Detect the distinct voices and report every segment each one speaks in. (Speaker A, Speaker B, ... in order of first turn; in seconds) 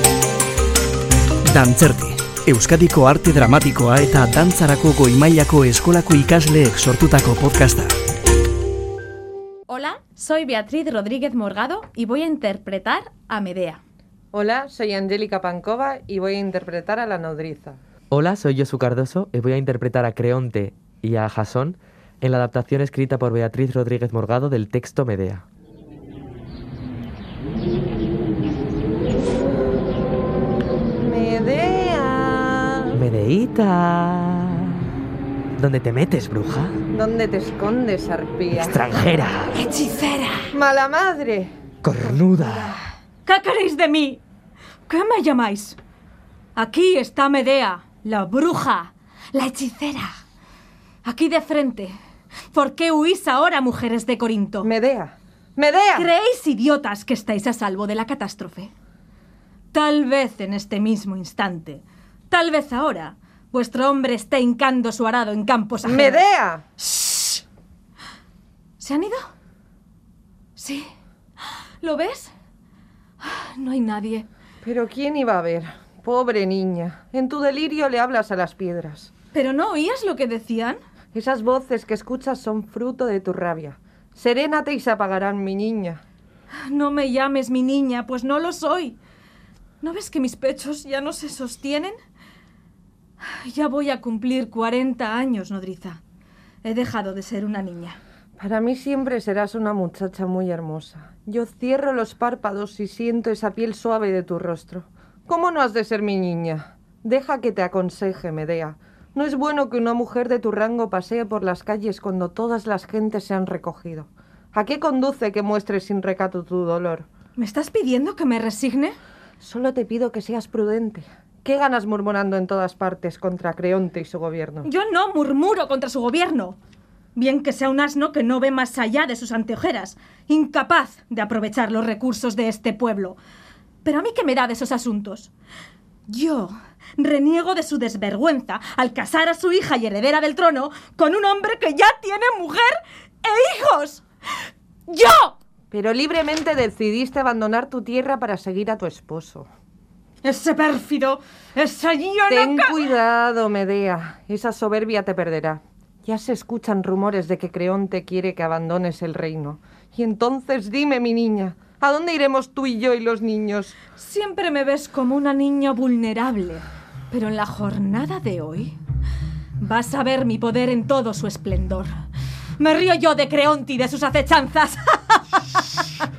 Speaker A: 1.5-8.0
Speaker B: 9.7-13.8, 39.5-40.5, 43.2-44.2, 44.9-45.8, 46.5-50.2, 51.0-51.9, 52.5-54.7, 56.0-58.7, 59.7-66.2, 66.8-67.4, 68.8-69.3, 70.6-70.9, 71.4-72.3, 73.2-74.3, 79.3-80.8, 86.6-89.0, 89.8-92.0, 93.2-96.0, 96.6-98.0, 117.4-119.0, 124.6-126.6, 127.2-133.2, 133.8-135.3, 136.1-144.1, 144.9-145.4, 150.2-152.8, 163.9-168.8, 169.6-172.0, 172.6-176.1
Speaker C: 14.3-17.8, 31.0-33.0, 36.9-38.8, 40.5-41.5, 54.6-56.1, 65.8-66.6, 74.6-79.1, 81.1-86.0, 98.4-117.1, 119.4-124.7, 145.7-149.5, 152.3-163.8
Speaker D: 18.1-25.4, 32.9-34.9, 35.6-36.8, 38.5-39.6, 41.8-42.8